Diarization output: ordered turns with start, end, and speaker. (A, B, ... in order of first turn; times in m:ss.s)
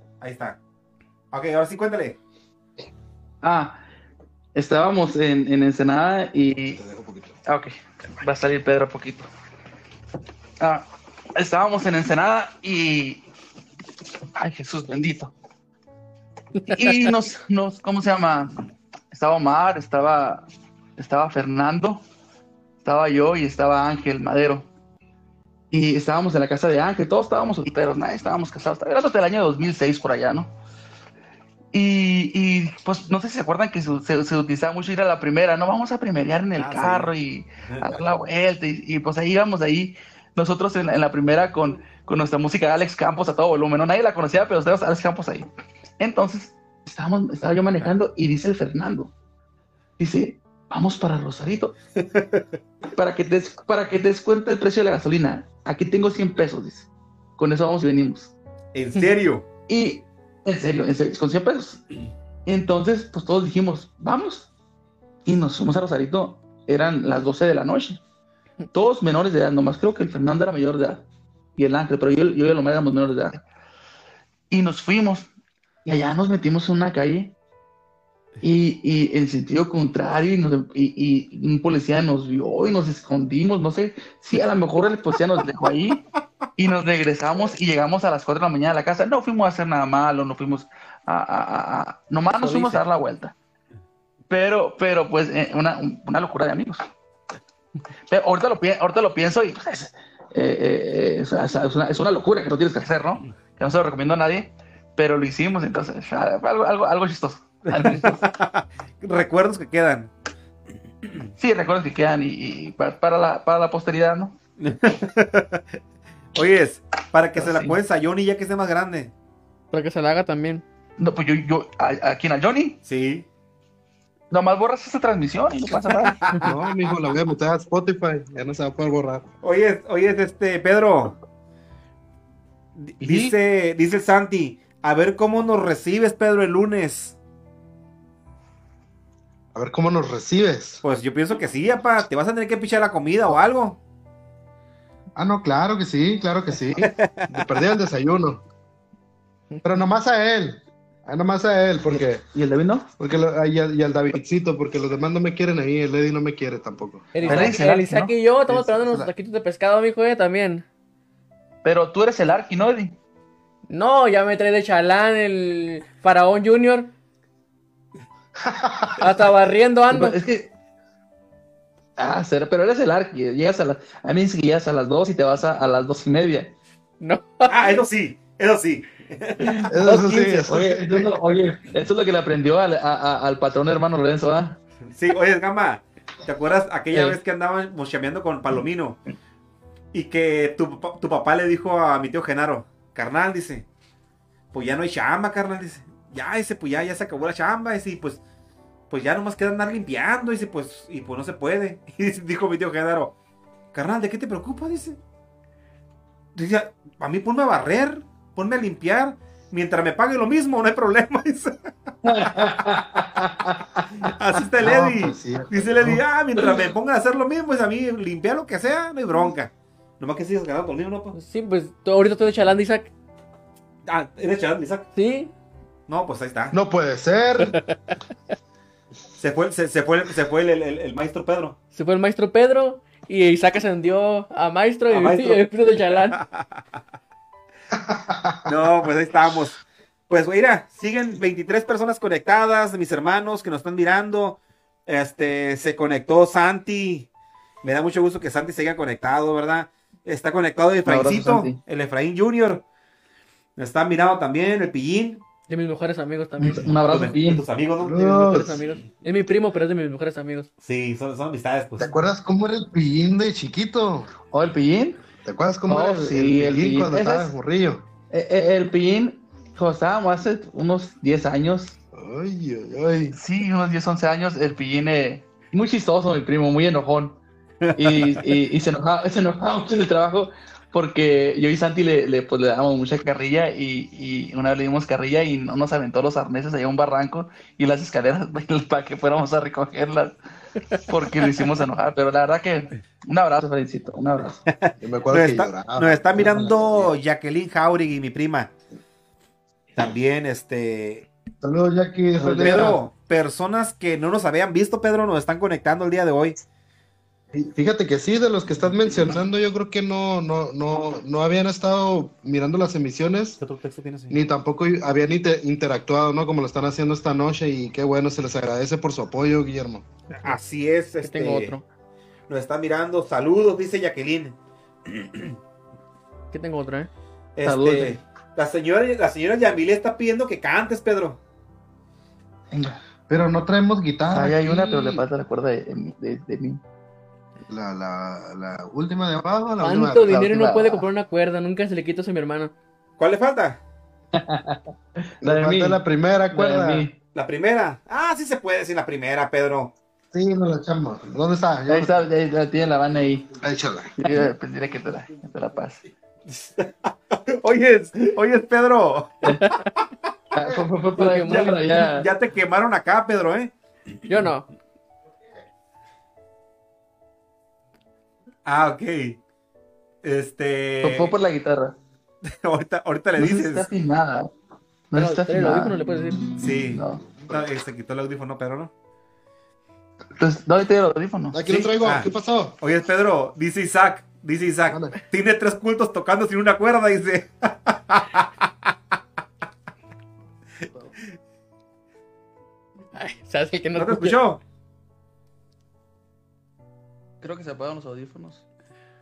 0:00.2-0:00.6 A
0:01.3-0:02.2 A
0:03.4-0:03.8 B
0:04.5-0:06.8 B
0:06.7-0:07.4 C
0:07.5-0:09.3 B
0:10.6-0:13.3 B
0:14.4-0:15.3 B
0:16.7-0:18.6 B
0:19.1-0:22.0 B
0:22.8-0:24.7 B
0:25.7-0:30.5 B
0:31.7-0:49.1 B
0:36.6-0:37.1 A
0:50.0-0:51.7 B
0:52.0-0:52.6 A
0:52.9-0:58.3 B
0:58.7-0:59.4 A
0:59.7-1:01.9 B
1:02.4-1:04.5 B
1:05.2-1:08.0 B
1:08.7-1:11.0 B
1:11.6-1:13.4 B
1:14.5-1:15.3 B
1:15.8-1:17.3 B
1:18.4-1:26.0 B
1:26.6-1:33.3 B
1:32.4-1:32.8 D
1:34.3-1:36.8 B
1:38.1-1:48.2 B
1:47.6-1:50.1 A
1:51.4-1:54.3 B
1:54.6-1:55.8 A
1:56.3-1:59.1 A
1:57.4-1:57.8 B
1:59.7-2:00.6 D
2:01.0-2:02.8 B
2:02.8-2:03.3 A
2:04.3-2:06.2 B
2:05.6-2:06.6 A
2:06.4-2:09.3 C
2:09.4-2:11.2 A
2:12.8-2:17.2 A
2:13.0-2:13.4 C
2:19.5-2:20.8 C
2:20.8-2:23.8 A
2:25.2-2:28.4 C
2:26.8-2:27.3 A
2:29.6-2:32.2 C
2:32.3-2:32.9 B
2:33.0-2:37.5 C
2:37.1-2:40.6 D
2:37.2-2:38.1 B
2:38.5-2:39.1 C
2:41.6-2:43.0 B
2:43.7-2:46.9 D
2:48.4-2:49.0 C
2:49.0-2:50.2 D
2:49.9-2:50.5 B
2:52.0-2:56.6 B
2:57.0-2:57.8 D
2:57.5-2:59.7 A
2:59.4-2:59.7 B
2:59.7-3:01.1 C
2:59.8-3:00.4 D
3:00.5-3:04.6 B
3:04.8-3:09.0 A
3:09.9-3:13.7 A
3:14.5-3:18.2 A
3:18.9-3:23.2 A
3:23.7-3:25.0 A
3:26.3-3:32.6 A
3:32.0-3:33.1 B
3:34.0-3:41.1 A
3:34.6-3:36.0 C
3:41.1-3:42.9 D
3:43.8-3:44.9 A
3:44.9-3:45.3 D
3:45.9-3:46.5 A
3:46.5-3:47.6 C
3:49.2-3:51.6 A
3:51.7-3:56.2 D
3:54.9-3:55.4 A
3:56.1-3:56.6 A
3:57.7-3:58.5 C
3:58.4-4:07.1 A
4:07.6-4:12.6 A
4:10.8-4:11.6 B
4:13.6-4:15.2 A
4:15.5-4:16.8 D
4:16.4-4:17.4 B
4:16.9-4:18.1 A
4:17.8-4:18.6 C
4:18.0-4:20.5 D
4:20.6-4:21.9 A
4:21.8-4:24.1 C
4:24.3-4:25.0 B
4:25.2-4:27.8 C
4:25.7-4:27.3 B
4:28.1-4:31.8 B
4:31.9-4:33.2 C
4:33.1-4:37.2 B
4:37.6-4:38.2 A
4:37.8-4:50.2 B
4:50.8-4:54.4 B
4:54.5-4:58.5 A
4:54.8-4:56.9 C
4:59.7-5:01.1 A
5:01.4-5:02.8 C
5:02.2-5:02.8 B
5:02.4-5:06.4 A
5:07.3-5:13.4 C
5:13.4-5:14.2 A
5:14.1-5:19.8 C
5:20.2-5:21.6 A
5:21.0-5:21.6 D
5:22.3-5:25.4 A
5:26.3-5:26.9 D
5:27.4-5:31.2 A
5:27.4-5:28.0 B
5:32.5-5:32.8 B
5:33.1-5:35.0 C
5:34.1-5:36.6 B
5:37.5-5:40.8 C
5:39.6-5:42.5 D
5:43.0-5:43.6 A
5:44.1-5:45.8 B
5:45.2-5:46.9 C
5:46.3-5:47.0 B
5:47.1-5:49.7 A
5:50.1-5:52.0 C
5:51.7-5:53.3 B
5:53.4-5:54.3 C
5:54.0-5:55.8 B
5:56.3-5:59.2 A
5:59.2-5:59.7 D
6:00.3-6:02.1 B
6:01.0-6:01.5 D
6:01.0-6:03.5 A
6:04.1-6:04.5 D
6:08.4-6:09.2 A
6:10.0-6:11.1 A
6:10.8-6:11.8 B
6:12.2-6:13.7 A
6:13.2-6:14.3 B
6:14.9-6:17.0 B
6:14.9-6:16.2 D
6:16.4-6:18.7 A
6:17.1-6:17.5 C
6:20.1-6:21.7 B
6:21.3-6:22.6 C
6:22.6-6:28.7 A
6:24.7-6:25.0 C
6:32.9-6:34.2 D
6:33.7-6:34.4 A
6:37.2-6:38.4 B